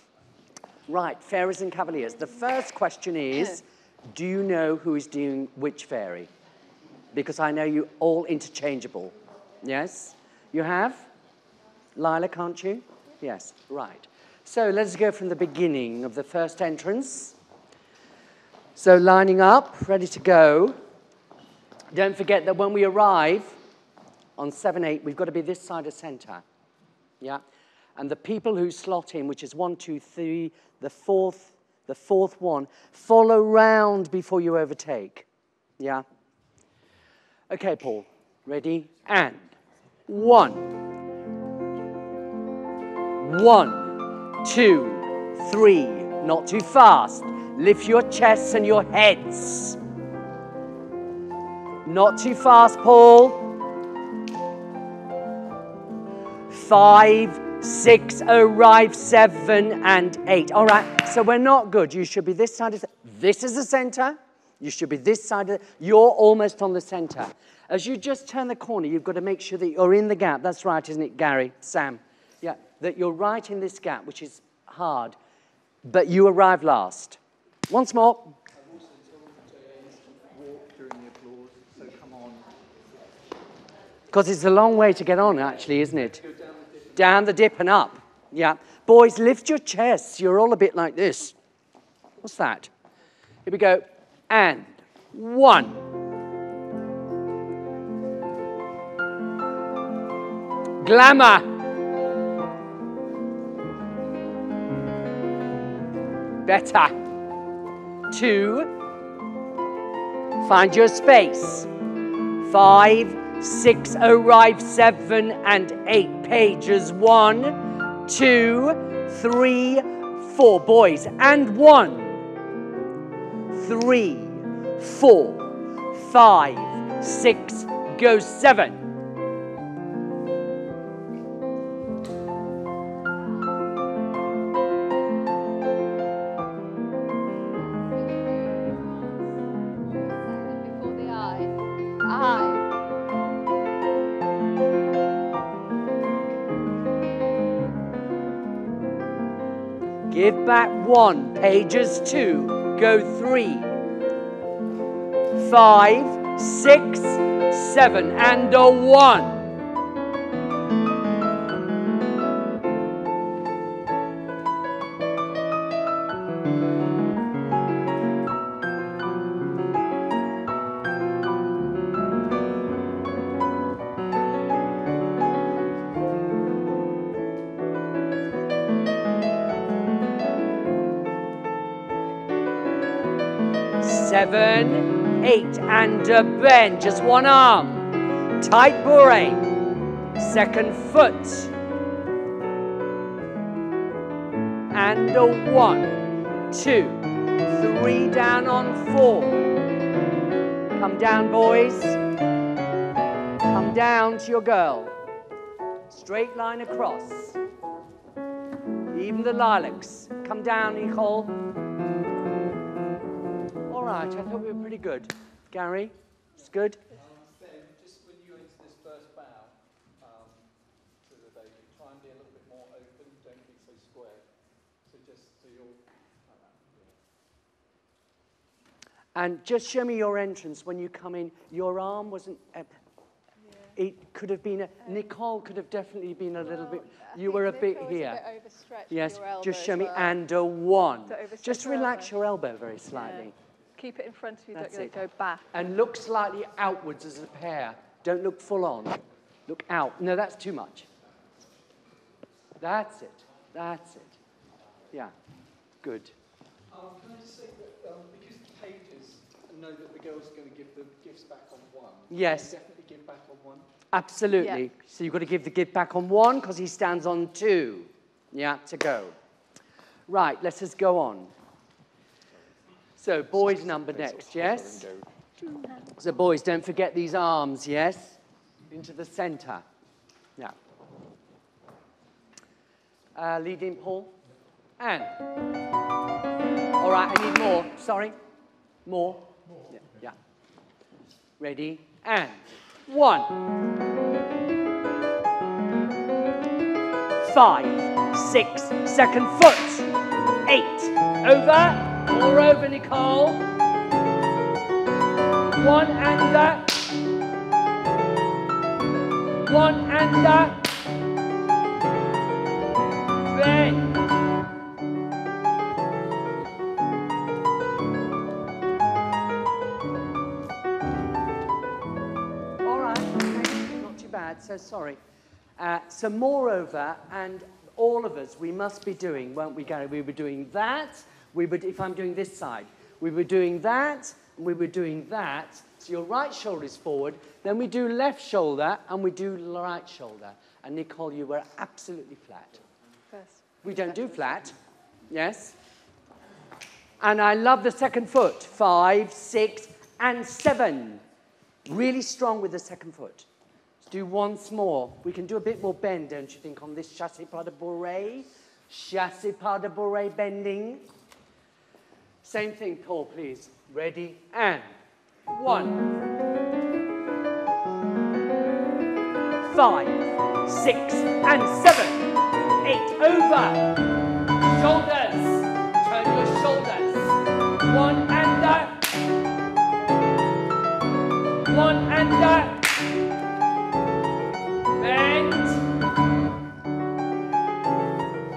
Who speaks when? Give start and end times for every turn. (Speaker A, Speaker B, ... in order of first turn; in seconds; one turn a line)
Speaker A: 0.9-6.3
Speaker A: 7.1-11.1
Speaker A: 11.9-17.3
Speaker A: 18.8-20.7
Speaker A: 21.9-23.6
Speaker A: 24.4-26.4
Speaker A: 28.0-35.2
Speaker A: 35.8-36.0
Speaker A: 37.5-39.5
Speaker A: 40.1-40.7
Speaker A: 43.2-49.8
Speaker A: 51.8-53.5
Speaker A: 56.5-75.2
Speaker A: 75.8-78.4
Speaker B: 78.7-82.5
Speaker A: 84.1-86.2
Speaker B: 86.3-87.0
Speaker A: 86.9-91.3
Speaker A: 92.2-92.7
Speaker A: 93.4-95.8
Speaker A: 100.8-101.5
Speaker A: 106.5-107.0
Speaker A: 108.1-108.7
Speaker A: 110.4-111.7
Speaker A: 112.4-122.2
Speaker A: 123.5-128.8
Speaker C: 137.5-142.7
Speaker A: 150.1-153.7
Speaker A: 155.3-159.5
Speaker A: 183.8-189.5
Speaker A: 190.2-191.5
Speaker A: 194.7-199.4
Speaker A: 200.7-202.0
Speaker A: 203.4-204.9
Speaker A: 205.9-207.4
Speaker A: 208.9-211.3
Speaker A: 213.7-216.8
Speaker B: 217.0-220.4
Speaker B: 221.0-224.2
Speaker B: 224.8-226.6
Speaker A: 229.1-232.7
Speaker A: 233.8-238.2
Speaker C: 236.4-240.2
Speaker A: 238.9-243.3
Speaker C: 241.1-242.1
Speaker C: 242.9-245.5
Speaker A: 244.5-245.0
Speaker A: 245.5-250.9
Speaker A: 252.6-254.1
Speaker A: 255.8-256.1
Speaker B: 256.7-263.6
Speaker A: 262.1-262.5
Speaker A: 263.9-269.1
Speaker A: 270.1-271.3
Speaker A: 273.0-274.8
Speaker B: 273.4-275.1
Speaker C: 275.4-275.9
Speaker A: 275.9-278.2
Speaker A: 278.7-279.6
Speaker A: 283.1-284.1
Speaker A: 284.8-285.1
Speaker A: 286.8-288.1
Speaker A: 288.9-290.1
Speaker A: 291.4-293.4
Speaker A: 297.2-299.9
Speaker A: 300.4-303.5
Speaker A: 305.5-306.8
Speaker A: 309.4-310.6
Speaker A: 313.3-313.9
Speaker A: 322.6-325.0
Speaker A: 325.6-342.6
Speaker C: 343.1-344.3
Speaker A: 343.6-344.5
Speaker A: 345.1-345.5
Speaker A: 347.0-351.0
Speaker A: 351.6-353.2
Speaker A: 353.8-360.8
Speaker A: 362.2-364.7
Speaker A: 365.3-365.9
Speaker A: 369.4-372.1
Speaker A: 372.6-373.7
Speaker A: 374.5-378.9
Speaker A: 381.4-382.7
Speaker A: 384.8-385.6